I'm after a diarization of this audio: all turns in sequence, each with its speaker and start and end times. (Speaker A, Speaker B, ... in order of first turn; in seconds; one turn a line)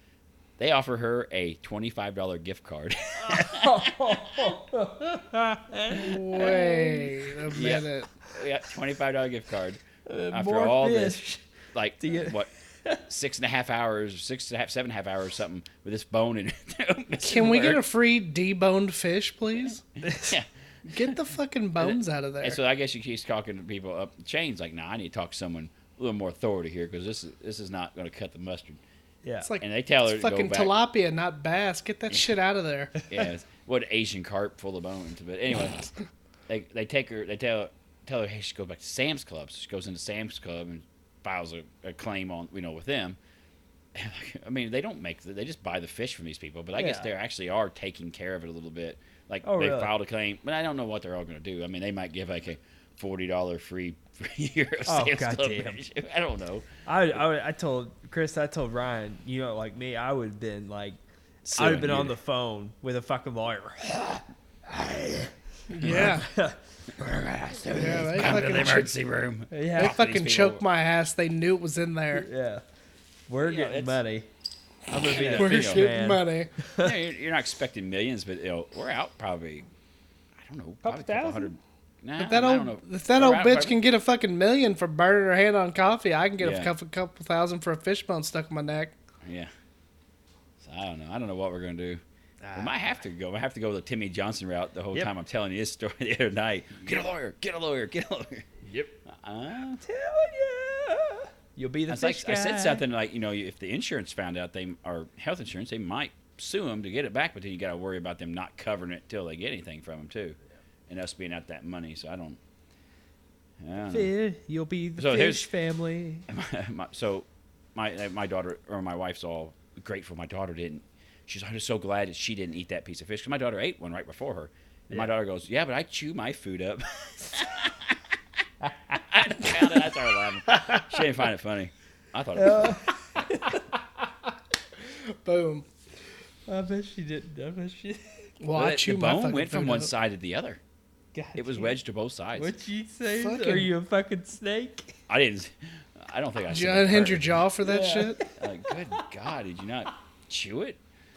Speaker A: 0.6-4.6
Speaker B: 3.2-7.3
Speaker C: 6.0-8.1
Speaker A: 6.3-6.7
Speaker A: 7.5-11.2
Speaker B: 10.1-11.4
Speaker A: 11.7-12.5
Speaker B: 12.0-13.0
Speaker A: 13.1-17.8
Speaker C: 17.2-19.8
Speaker B: 20.0-20.4
Speaker A: 20.2-20.5
Speaker C: 20.9-22.6
Speaker A: 21.8-28.8
Speaker B: 29.2-29.5
Speaker C: 29.4-32.9
Speaker A: 29.6-30.7
Speaker B: 33.0-33.2
Speaker A: 33.1-35.9
Speaker A: 36.5-43.2
Speaker A: 43.9-56.7
Speaker B: 46.8-47.1
Speaker B: 49.4-49.9
Speaker B: 54.9-55.8
Speaker B: 56.9-61.0
Speaker A: 61.5-62.1
Speaker B: 61.5-66.6
Speaker C: 65.7-66.3
Speaker A: 65.8-66.1
Speaker A: 66.9-70.6
Speaker C: 67.7-68.9
Speaker B: 69.5-70.0
Speaker C: 69.8-72.3
Speaker B: 72.2-72.6
Speaker B: 73.3-74.3
Speaker A: 73.4-74.0
Speaker B: 74.9-76.9
Speaker A: 75.1-75.9
Speaker C: 75.1-76.5
Speaker A: 76.8-79.7
Speaker A: 80.4-83.8
Speaker B: 80.8-81.5
Speaker C: 82.2-89.0
Speaker A: 86.4-86.7
Speaker A: 89.2-89.5
Speaker A: 90.6-92.0
Speaker B: 92.4-92.8
Speaker A: 92.5-98.5
Speaker B: 98.6-99.0
Speaker A: 99.1-99.8
Speaker B: 99.8-102.8
Speaker A: 101.9-112.4
Speaker A: 113.6-114.1
Speaker B: 113.9-116.3
Speaker A: 115.0-115.5
Speaker A: 116.3-128.2
Speaker B: 128.6-129.6
Speaker A: 129.1-132.8
Speaker B: 130.5-130.9
Speaker B: 132.3-133.6
Speaker C: 134.8-135.7
Speaker B: 136.5-138.2
Speaker C: 138.4-139.9
Speaker A: 138.6-140.6
Speaker B: 141.1-141.8
Speaker A: 141.3-142.5
Speaker B: 142.4-145.0
Speaker C: 143.1-143.7
Speaker A: 145.1-147.5
Speaker C: 146.5-148.2
Speaker B: 147.6-148.4
Speaker A: 148.3-150.8